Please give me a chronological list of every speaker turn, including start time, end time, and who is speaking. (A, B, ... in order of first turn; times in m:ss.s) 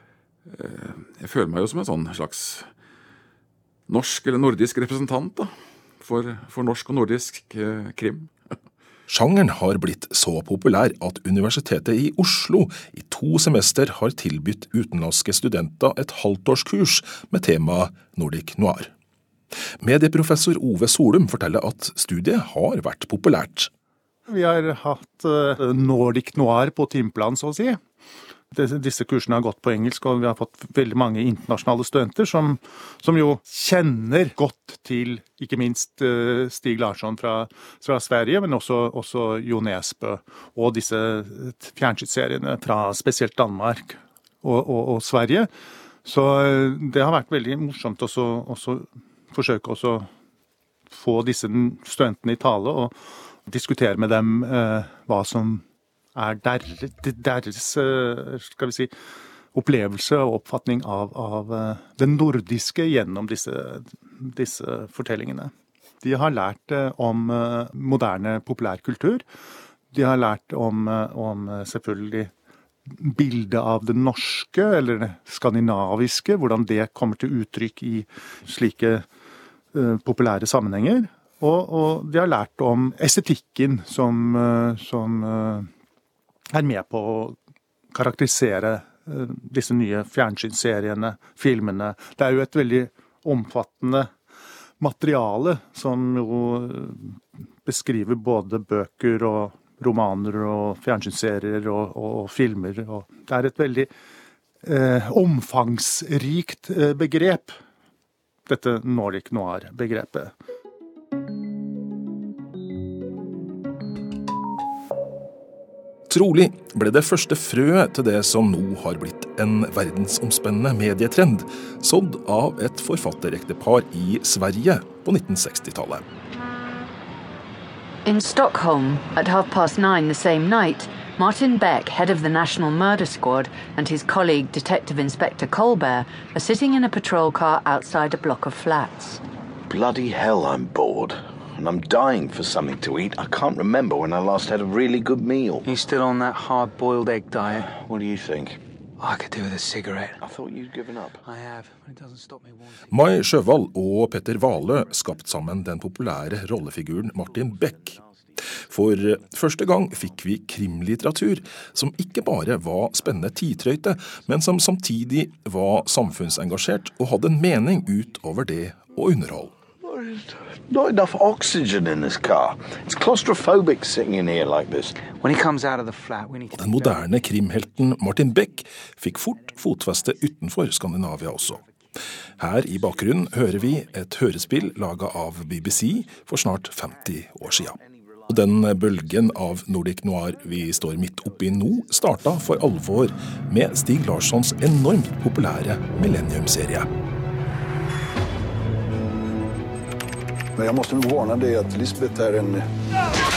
0:00.5-0:02.7 A
0:03.9-0:08.3 A
0:09.1-0:18.9 B
0:19.8-0:23.7 B
0:24.3-0:27.8 C
0:28.5-0:45.5 C
0:46.0-0:50.1 C
0:50.9-0:55.6 C
0:56.2-0:58.9 C
0:59.5-1:09.2 C
1:09.9-1:12.3 C
1:12.9-1:19.1 C
1:19.7-1:25.7 C
1:26.5-1:27.4 C
1:27.9-1:34.1 C
1:34.8-1:43.9 C
1:44.6-1:47.6 C
1:48.5-1:50.3 C
1:56.1-2:06.0 B
2:08.0-2:19.2 D
2:19.7-2:25.7 E
2:25.6-2:27.7 F
2:27.5-2:28.6 E
2:29.0-2:30.2 F
2:30.2-2:31.2 E
2:31.2-2:32.8 F
2:32.9-2:38.0 B
2:38.6-2:49.5 B
2:49.9-2:55.1 E
2:55.0-2:56.9 F
2:56.6-3:01.6 B
3:02.4-3:16.9 B
3:20.6-3:22.6 G